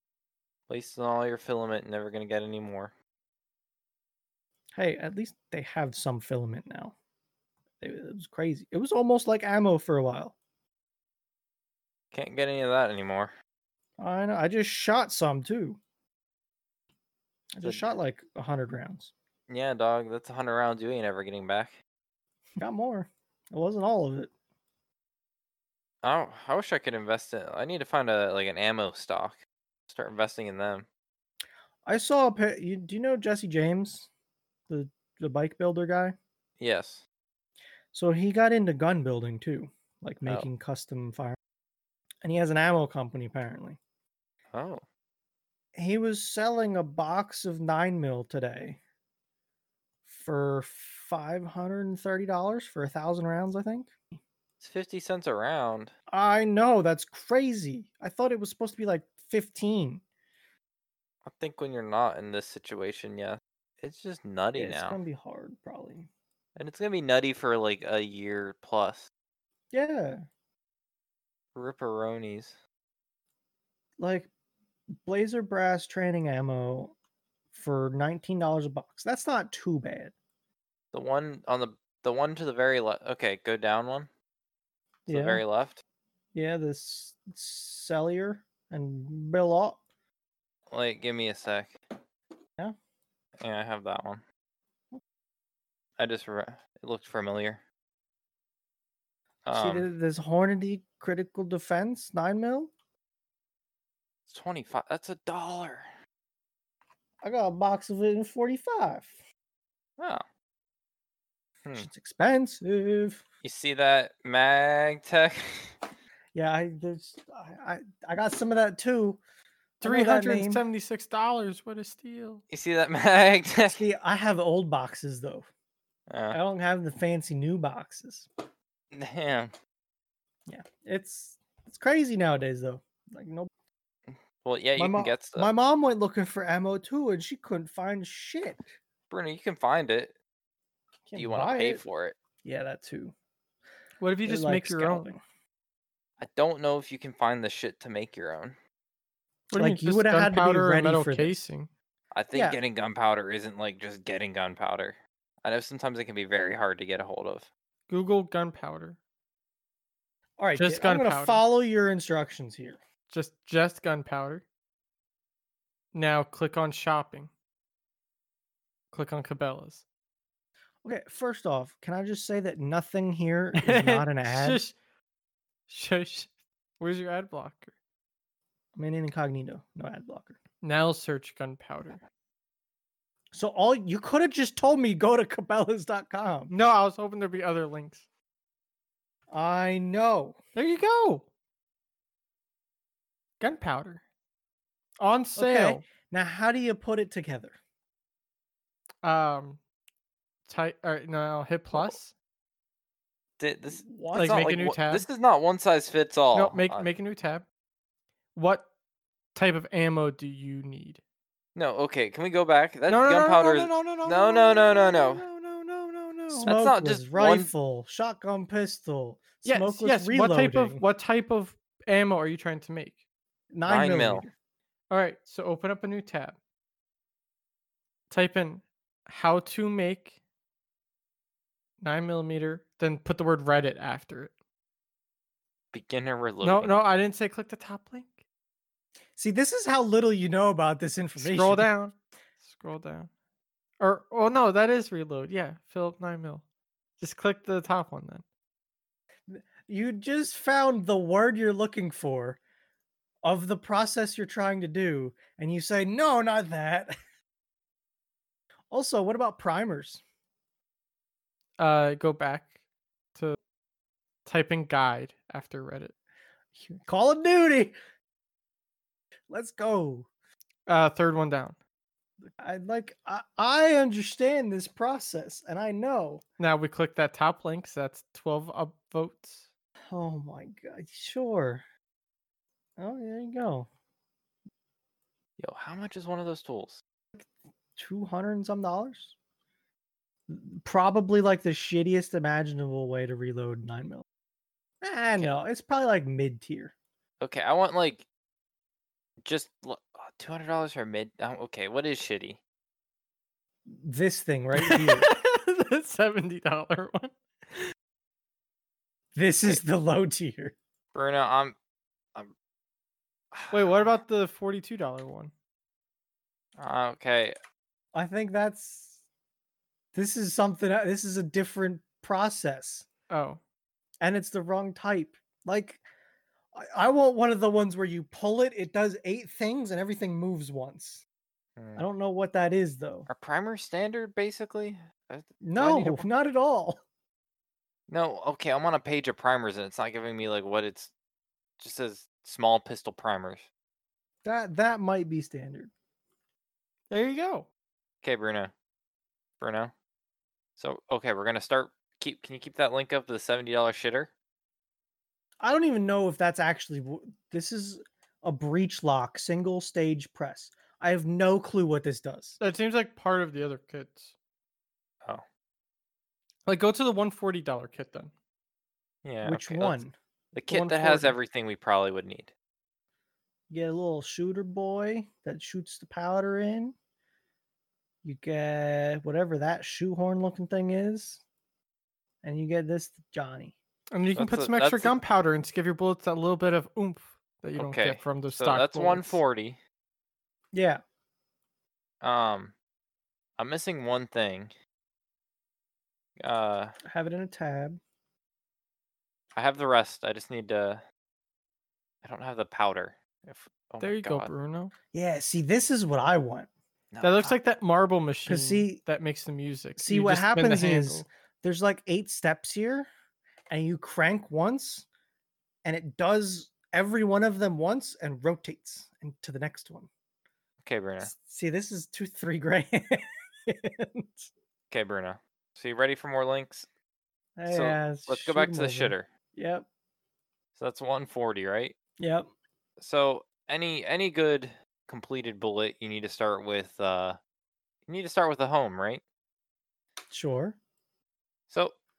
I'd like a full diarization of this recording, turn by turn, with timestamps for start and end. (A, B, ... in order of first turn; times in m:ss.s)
0:00.7-0:02.9 A
0:04.7-0:06.9 B
0:07.8-0:10.3 B
0:12.1-0:13.3 A
0:14.0-0:15.8 B
0:17.5-0:19.1 B
0:19.5-0:21.8 A
0:22.6-0:24.3 B
0:26.0-0:29.4 A
0:29.9-0:30.9 A
0:31.9-0:34.1 B
0:34.7-0:36.2 B
0:36.6-0:37.0 A
0:37.9-0:41.4 B
0:42.2-0:43.8 B
0:44.5-0:44.8 A
0:45.8-0:48.8 B
0:50.1-0:53.9 B
0:54.6-0:55.9 A
0:56.1-1:00.0 B
1:01.2-1:05.0 A
1:04.6-1:06.1 B
1:06.6-1:09.1 A
1:09.7-1:10.2 B
1:11.6-1:12.6 A
1:14.0-1:14.3 B
1:15.0-1:16.9 B
1:17.5-1:20.1 B
1:20.9-1:24.1 A
1:25.1-1:25.4 B
1:25.1-1:25.8 A
1:26.3-1:29.8 B
1:30.7-1:31.8 A
1:33.4-1:34.2 A
1:36.0-1:37.6 A
1:39.4-1:39.9 A
1:39.5-1:42.7 B
1:44.3-1:45.9 A
1:47.2-1:49.1 B
1:50.0-1:50.2 A
1:51.8-1:53.2 B
1:53.4-1:55.8 A
1:56.3-1:59.2 B
1:59.8-2:02.4 C
1:59.8-2:00.6 B
2:02.5-2:03.8 A
2:03.7-2:05.4 B
2:06.1-2:06.4 A
2:06.3-2:08.3 B
2:08.9-2:09.5 A
2:10.5-2:13.5 B
2:14.1-2:15.5 A
2:14.8-2:18.6 B
2:19.1-2:20.1 A
2:21.1-2:21.8 B
2:21.1-2:22.1 A
2:22.4-2:23.1 B
2:24.0-2:25.1 C
2:24.3-2:25.2 B
2:26.2-2:28.6 A
2:29.5-2:31.7 C
2:29.6-2:31.3 B
2:32.1-2:37.5 A
2:37.9-2:39.0 C
2:40.4-2:42.8 B
2:40.6-2:41.4 C
2:43.1-2:44.4 C
2:45.9-2:47.3 C
2:48.9-2:49.8 C
2:50.8-2:54.6 B
2:53.6-2:54.7 C
2:55.7-2:57.7 C
2:58.7-3:00.4 B
3:00.6-3:02.0 C
3:03.3-3:06.5 B
3:06.5-3:08.0 C
3:09.3-3:10.4 B
3:10.6-3:11.3 C
3:13.4-3:14.0 C
3:15.0-3:15.8 C
3:15.4-3:17.6 B
3:19.0-3:19.6 C
3:20.5-3:22.1 C
3:23.4-3:26.9 A
3:23.8-3:24.4 B
3:24.1-3:25.0 C
3:26.3-3:27.4 C
3:28.3-3:28.7 C
3:29.3-3:31.0 C
3:31.6-3:35.2 A
3:32.9-3:36.6 C
3:36.3-3:40.8 B
3:36.4-3:37.5 A
3:39.4-3:43.0 C
3:43.5-3:44.3 B
3:43.7-3:44.3 A
3:44.9-3:46.4 C
3:48.1-3:50.2 C
3:51.8-3:54.3 C
3:55.7-3:56.7 A
3:56.4-3:58.2 C
3:59.2-4:01.7 B
4:01.2-4:03.1 C
4:03.8-4:06.4 C
4:07.0-4:08.2 C
4:09.3-4:12.4 B
4:13.2-4:16.9 B
4:18.7-4:20.0 B
4:21.6-4:22.5 C
4:24.2-4:25.9 C
4:26.6-4:27.7 B
4:29.3-4:30.1 B
4:30.7-4:31.6 C
4:32.4-4:36.2 B
4:36.4-4:39.4 C
4:39.9-4:41.6 B
4:42.8-4:43.7 B
4:45.4-4:46.8 A
4:47.1-4:49.1 B
4:50.3-4:54.0 B
4:54.8-4:56.7 B
4:57.2-4:58.1 A
4:59.2-5:02.4 A
5:03.7-5:05.1 B
5:04.6-5:07.7 C
5:09.1-5:10.6 B
5:10.9-5:11.6 A
5:13.3-5:13.9 A
5:13.5-5:15.3 C
5:16.6-5:17.4 A
5:17.9-5:19.0 B
5:19.9-5:22.9 B
5:23.1-5:23.4 C
5:24.0-5:25.8 B
5:26.5-5:31.0 B
5:31.6-5:31.8 A
5:31.8-5:33.1 B
5:33.1-5:36.1 A
5:35.4-5:36.8 B
5:37.9-5:40.9 A
5:41.6-5:43.5 A
5:44.2-5:45.7 B
5:46.9-5:47.5 C
5:48.0-5:48.5 A
5:49.4-5:49.7 A
5:50.6-5:54.1 A
5:55.4-6:02.4 B
6:02.4-6:04.1 C
6:06.4-6:08.1 C
6:09.0-6:09.8 A
6:09.2-6:09.9 B
6:10.3-6:12.3 A
6:10.5-6:11.1 B
6:13.5-6:16.7 B
6:18.0-6:21.2 B
6:22.2-6:23.6 B
6:23.9-6:29.2 C
6:24.2-6:24.9 A
6:27.6-6:29.6 A
6:30.5-6:30.8 B
6:32.0-6:32.5 A
6:33.4-6:34.5 A
6:36.2-6:36.7 A
6:36.9-6:37.8 B
6:39.4-6:40.8 A
6:42.0-6:44.3 A
6:43.8-6:44.7 C
6:44.9-6:46.5 B
6:46.9-6:47.4 A
6:47.0-6:51.1 C
6:48.3-6:48.8 B
6:49.8-6:52.9 B
6:53.5-6:54.9 B
6:55.6-6:59.9 B
7:00.6-7:01.1 A
7:01.0-7:04.3 B
7:04.7-7:06.7 A
7:07.4-7:09.7 B
7:07.5-7:09.1 A
7:10.6-7:11.7 A
7:12.0-7:12.3 B
7:12.8-7:17.2 A
7:17.9-7:19.0 A
7:20.1-7:20.6 B